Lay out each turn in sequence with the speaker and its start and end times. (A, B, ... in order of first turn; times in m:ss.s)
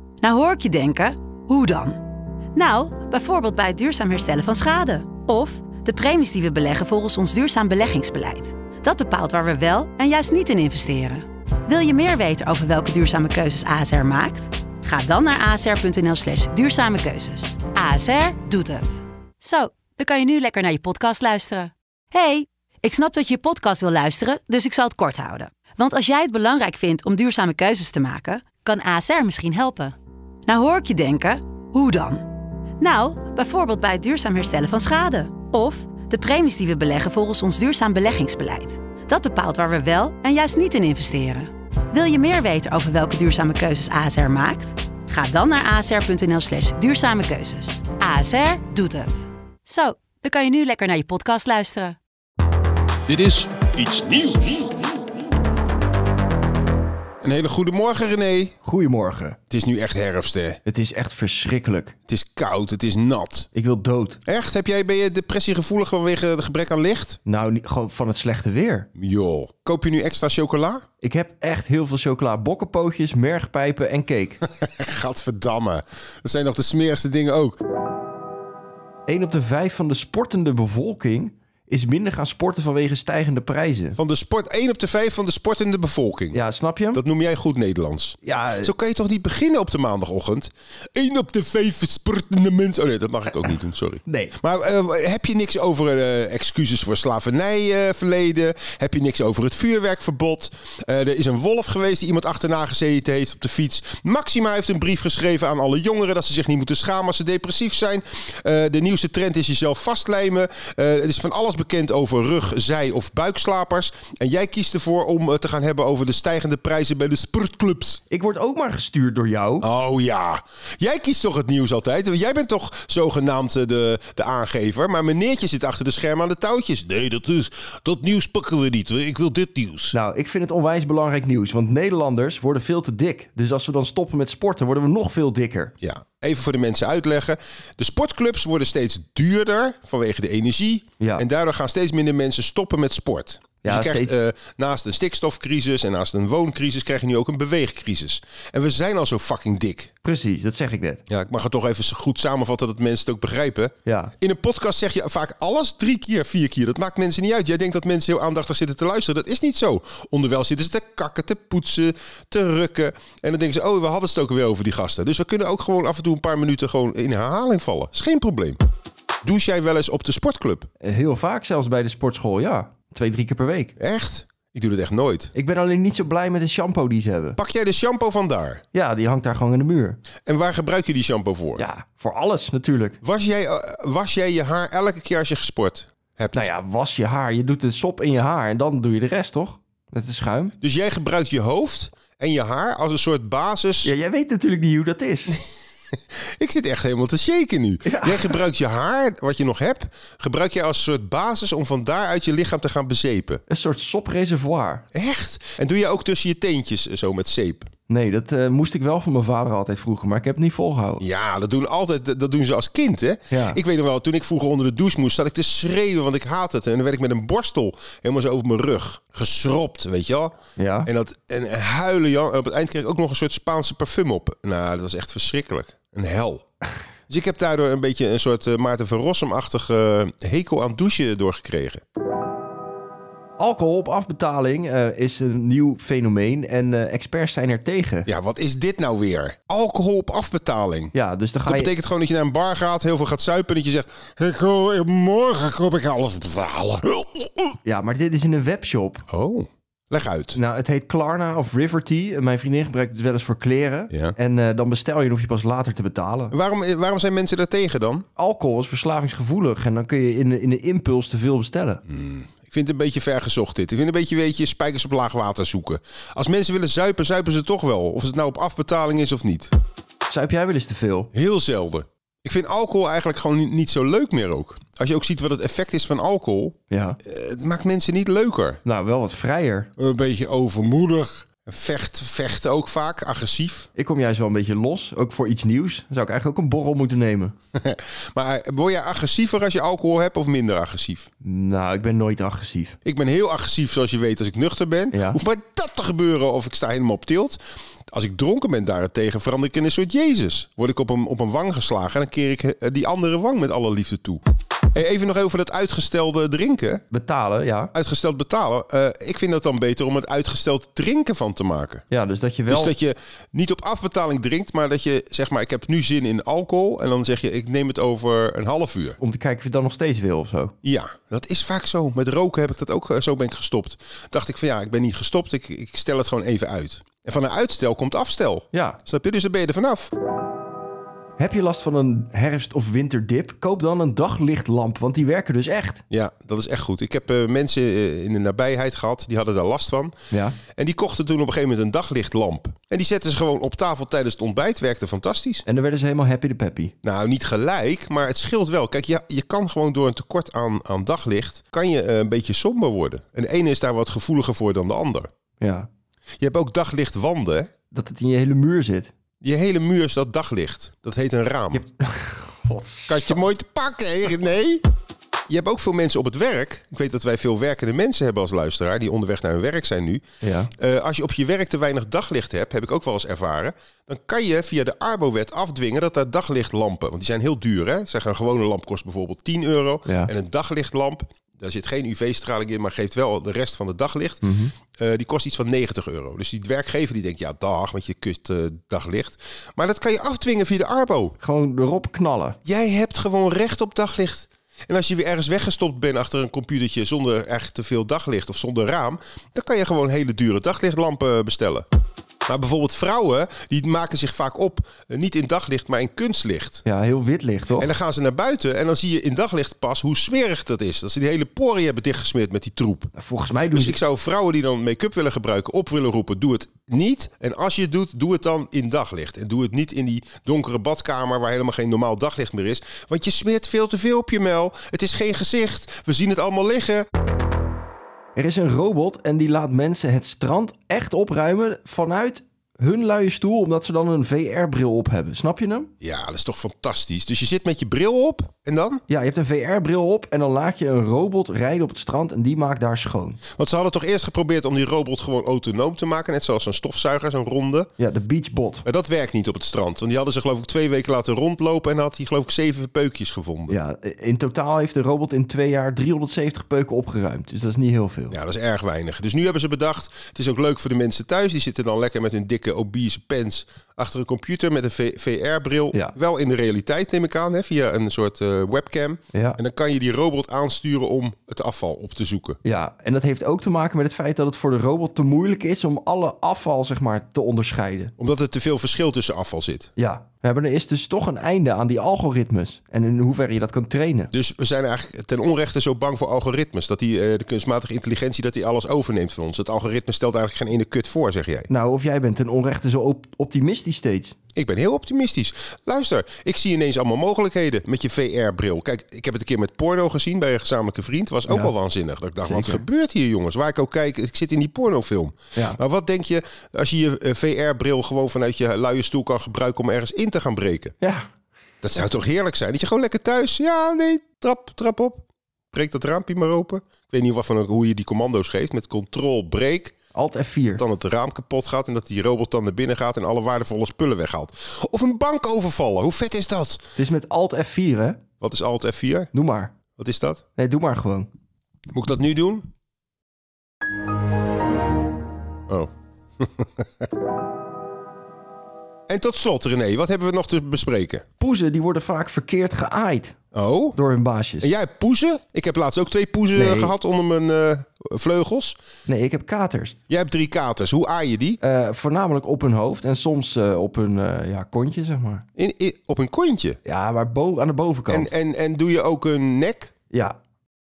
0:00.2-0:02.0 A
0:02.6-0:30.0 A
0:30.5-0:52.0 A
0:53.1-0:54.7 B
0:57.2-0:58.6 B
0:58.6-0:59.4 C
0:59.5-1:00.6 B
1:00.6-1:02.0 C
1:02.1-1:03.5 B
1:03.5-1:04.2 C
1:04.3-1:07.2 B
1:07.3-1:08.9 C
1:09.0-1:10.8 B
1:11.0-1:14.4 C
1:14.4-1:17.6 B
1:19.1-1:24.0 C
1:24.0-1:26.4 B
1:26.3-1:27.0 C
1:26.9-1:58.0 B
1:28.2-1:28.7 C
1:34.1-1:34.4 C
1:58.1-1:59.7 C
1:59.6-2:10.0 B
2:09.9-2:15.7 C
2:15.8-2:29.9 B
2:21.0-2:21.3 C
2:23.6-2:24.1 C
2:30.0-2:31.0 C
2:31.1-2:48.6 B
2:33.8-2:34.1 C
2:49.2-2:50.7 B
2:50.8-2:53.7 C
2:53.8-2:55.3 B
2:55.3-2:57.4 C
2:57.4-2:58.6 B
2:58.7-3:00.0 C
3:00.3-3:01.6 B
3:01.6-3:03.0 C
3:03.0-3:06.5 B
3:06.3-3:10.6 C
3:10.6-3:13.9 B
3:13.8-3:15.4 C
3:16.4-3:23.4 B
3:17.8-3:18.4 C
3:23.5-3:24.8 C
3:24.9-3:27.7 B
3:27.9-3:31.0 C
3:31.0-3:40.3 B
3:33.3-3:33.6 C
3:40.6-3:40.9 C
3:40.9-3:46.4 B
3:47.1-3:51.8 B
3:53.4-3:58.1 C
3:58.1-4:00.9 B
4:00.9-4:01.7 C
4:01.5-4:07.6 B
4:07.6-4:09.0 C
4:09.1-4:10.4 B
4:10.3-4:16.4 C
4:16.3-4:18.0 B
4:18.2-4:21.8 C
4:21.9-4:29.5 B
4:30.1-4:31.1 C
4:31.1-4:38.6 B
4:36.7-4:37.0 C
4:38.6-4:39.7 C
4:39.8-4:43.7 B
4:43.8-4:47.4 C
4:47.6-4:51.1 B
4:51.2-4:52.8 C
4:52.8-4:57.4 B
4:54.9-4:55.2 C
4:57.9-5:04.2 B
5:04.7-5:06.8 B
5:06.9-5:07.7 C
5:07.7-5:11.8 B
5:11.9-5:12.7 C
5:12.5-5:19.0 B
5:19.0-5:20.5 C
5:20.6-5:29.9 B
5:28.5-5:28.8 C
5:31.2-5:35.8 C
5:35.9-5:40.0 B
5:40.1-5:40.4 C
5:40.6-5:45.4 B
5:45.4-5:46.7 C
5:46.8-5:55.1 B
5:55.4-5:55.7 C
5:56.2-5:57.5 B
5:57.7-5:58.9 C
5:59.2-6:01.6 B
6:01.5-6:03.2 C
6:02.9-6:04.6 B
6:05.3-6:10.0 B
6:10.2-6:10.5 C
6:10.6-6:24.2 B
6:24.2-6:24.6 C
6:24.8-6:31.2 B
6:31.2-6:32.4 C
6:32.4-6:41.7 B
6:42.3-6:46.6 B
6:46.6-6:47.7 C
6:47.6-6:52.9 B
6:53.0-6:53.8 C
6:53.5-7:06.8 B
7:08.2-7:15.7 C
7:15.8-7:18.8 B
7:18.9-7:23.2 C
7:23.4-7:27.7 B
7:27.8-7:28.6 C
7:28.6-7:33.6 B
7:33.5-7:38.2 C
7:38.1-7:52.4 B
7:49.1-7:49.4 C
7:52.4-7:57.9 C
7:58.0-7:59.7 B
7:59.8-8:04.1 C
8:04.1-8:11.5 B
8:11.5-8:14.2 C
8:14.4-8:30.7 B
8:21.3-8:21.5 C
8:22.2-8:22.6 C
8:30.8-8:31.1 C
8:31.6-8:39.8 B
8:39.9-8:40.6 C
8:40.6-8:46.7 B
8:46.8-8:48.0 C
8:48.2-8:49.1 B
8:49.1-8:49.5 C
8:49.8-8:50.2 B
8:50.4-8:51.1 C
8:51.7-8:52.4 B
8:55.5-8:56.6 B
8:58.9-9:01.0 B
9:01.2-9:03.2 C
9:03.3-9:03.8 B
9:03.7-9:04.6 C
9:04.4-9:08.6 B
9:06.4-9:06.8 C
9:08.9-9:09.8 C
9:09.9-9:11.4 B
9:11.4-9:15.2 C
9:15.4-9:16.6 B
9:16.6-9:18.1 C
9:17.9-9:19.7 B
9:19.9-9:20.2 C